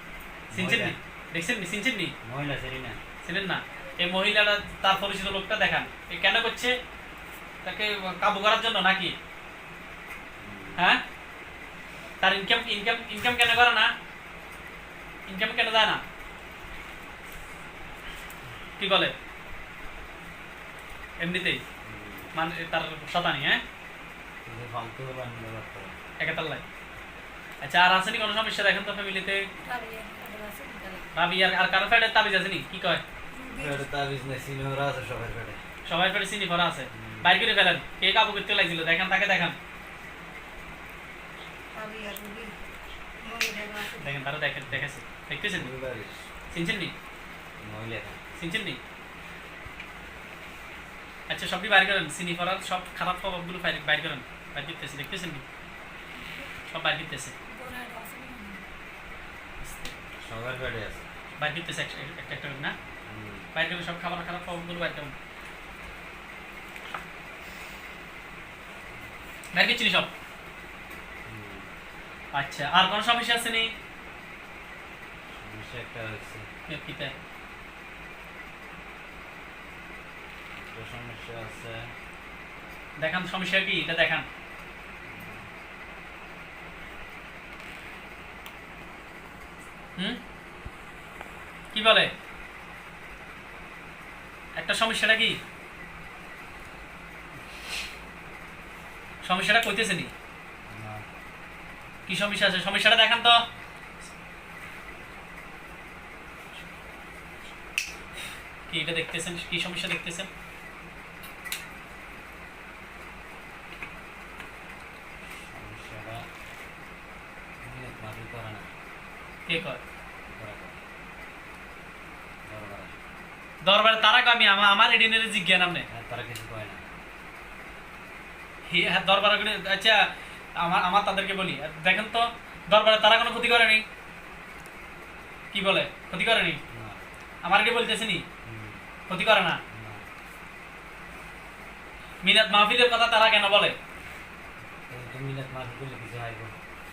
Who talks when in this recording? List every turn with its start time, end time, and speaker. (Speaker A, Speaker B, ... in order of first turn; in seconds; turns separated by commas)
Speaker A: 0.5-0.9, Speaker B: 0.5-2.1, Speaker A: 2.2-3.0, Speaker B: 3.2-6.8, Speaker B: 7.6-9.2, Speaker A: 10.4-10.8, Speaker B: 10.8-11.0, Speaker B: 12.2-13.9, Speaker B: 15.3-16.0, Speaker B: 18.8-19.1, Speaker B: 21.2-21.6, Speaker A: 21.8-22.3, Speaker B: 22.3-23.6, Speaker A: 24.4-25.9, Speaker B: 26.2-26.6, Speaker B: 27.6-29.5, Speaker C: 29.6-31.1, Speaker B: 31.1-33.0, Speaker C: 33.3-33.9, Speaker A: 33.5-35.6, Speaker B: 35.9-39.6, Speaker A: 36.9-37.3, Speaker C: 41.7-42.5, Speaker C: 43.2-44.1, Speaker B: 43.9-45.7, Speaker A: 45.5-46.3, Speaker B: 46.5-46.9, Speaker A: 47.6-48.2, Speaker B: 48.4-48.8, Speaker B: 51.3-55.4, Speaker C: 56.2-56.5, Speaker B: 56.7-57.4, Speaker C: 57.5-58.6, Speaker B: 59.6-59.9, Speaker A: 60.2-61.1, Speaker B: 61.4-62.8, Speaker A: 63.0-63.5, Speaker B: 63.5-65.1, Speaker B: 69.5-70.1, Speaker A: 71.3-71.7, Speaker B: 72.3-73.7, Speaker A: 75.4-76.5, Speaker B: 76.7-77.1, Speaker A: 80.5-81.9, Speaker B: 83.0-84.3, Speaker A: 85.1-85.5, Speaker B: 91.7-92.1, Speaker B: 94.6-95.4, Speaker B: 99.2-100.1, Speaker A: 100.7-101.0, Speaker B: 102.1-103.4, Speaker B: 108.7-110.3, Speaker A: 115.4-116.3, Speaker A: 117.6-118.7, Speaker B: 119.5-119.8, Speaker A: 120.3-120.8, Speaker A: 122.5-122.9, Speaker B: 123.6-125.9, Speaker A: 125.9-126.8, Speaker B: 128.7-133.8, Speaker B: 135.5-136.6, Speaker A: 136.7-137.0, Speaker B: 137.4-138.2, Speaker A: 138.4-138.8, Speaker B: 139.1-139.6, Speaker A: 139.7-140.1, Speaker B: 142.2-143.8, Speaker A: 144.9-146.5